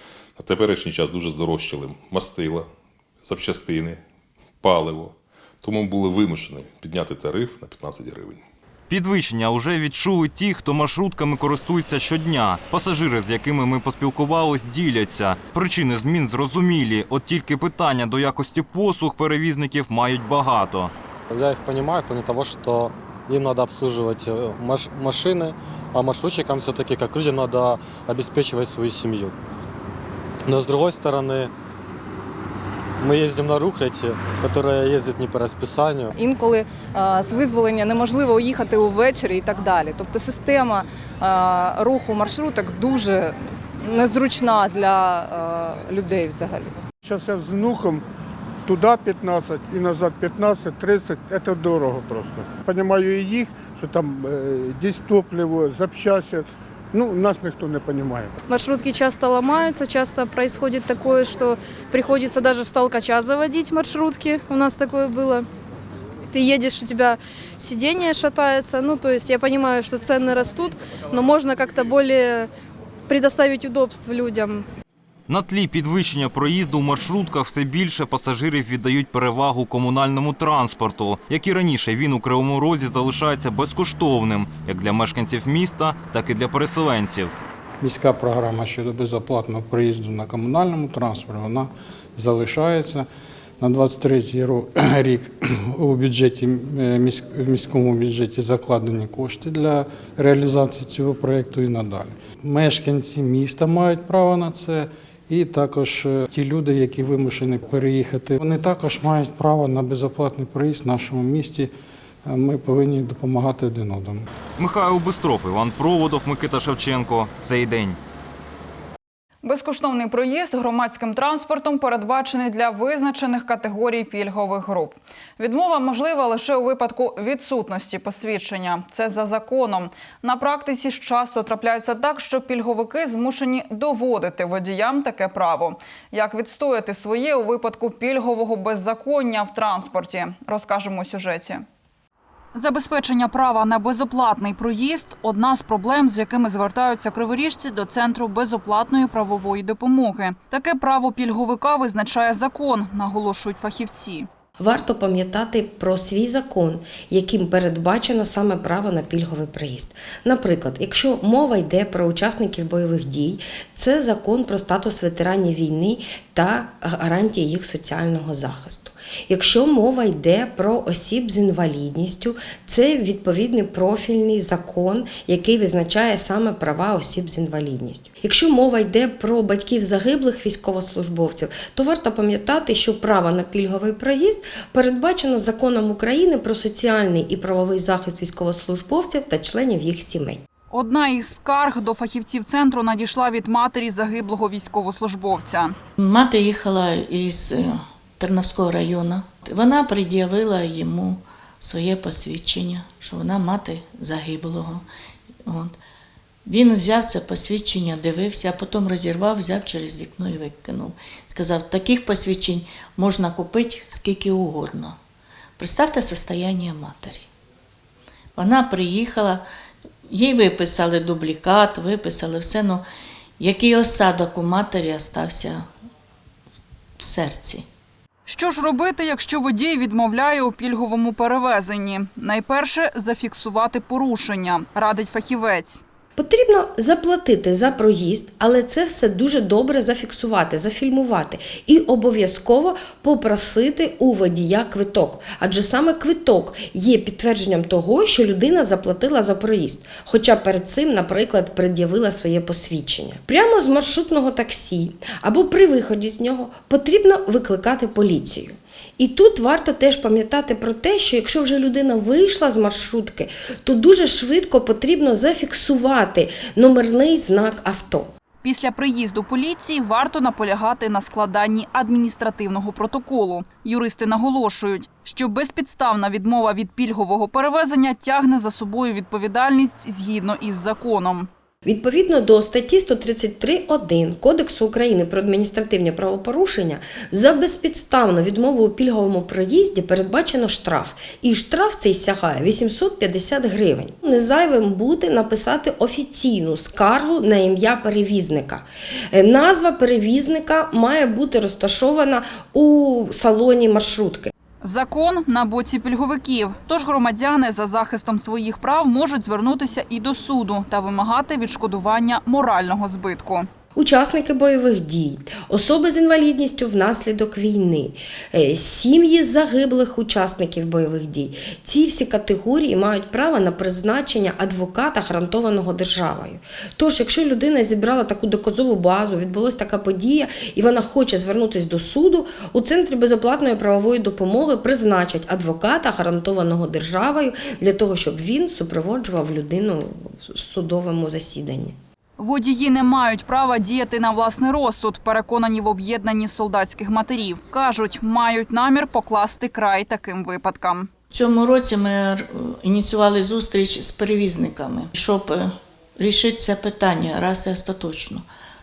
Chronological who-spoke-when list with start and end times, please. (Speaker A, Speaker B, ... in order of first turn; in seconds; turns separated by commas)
Speaker A: 0.4-2.7, Speaker A: 3.2-4.0, Speaker A: 4.6-8.4, Speaker B: 8.9-20.9, Speaker C: 21.3-29.3, Speaker C: 30.5-31.5, Speaker C: 33.0-36.1, Speaker D: 36.2-46.8, Speaker E: 47.0-48.0, Speaker E: 48.7-58.4, Speaker F: 58.5-65.5, Speaker F: 66.3-72.5, Speaker F: 73.1-74.6, Speaker B: 75.3-87.4, Speaker G: 87.8-93.1, Speaker G: 93.6-111.7, Speaker G: 112.2-114.3, Speaker B: 114.6-118.0, Speaker H: 119.4-141.6, Speaker H: 142.5-154.3, Speaker I: 154.6-190.4, Speaker H: 190.7-195.7, Speaker J: 196.0-204.8, Speaker J: 205.5-205.8, Speaker J: 206.5-215.0, Speaker J: 215.6-217.3, Speaker J: 218.3-219.4, Speaker J: 220.1-222.8, Speaker J: 223.4-225.7, Speaker J: 227.0-227.6, Speaker H: 228.2-235.8, Speaker I: 236.2-268.1, Speaker H: 268.4-281.3, Speaker I: 281.7-304.3, Speaker H: 304.6-313.5, Speaker I: 313.8-341.8, Speaker H: 342.2-350.9, Speaker J: 351.1-358.2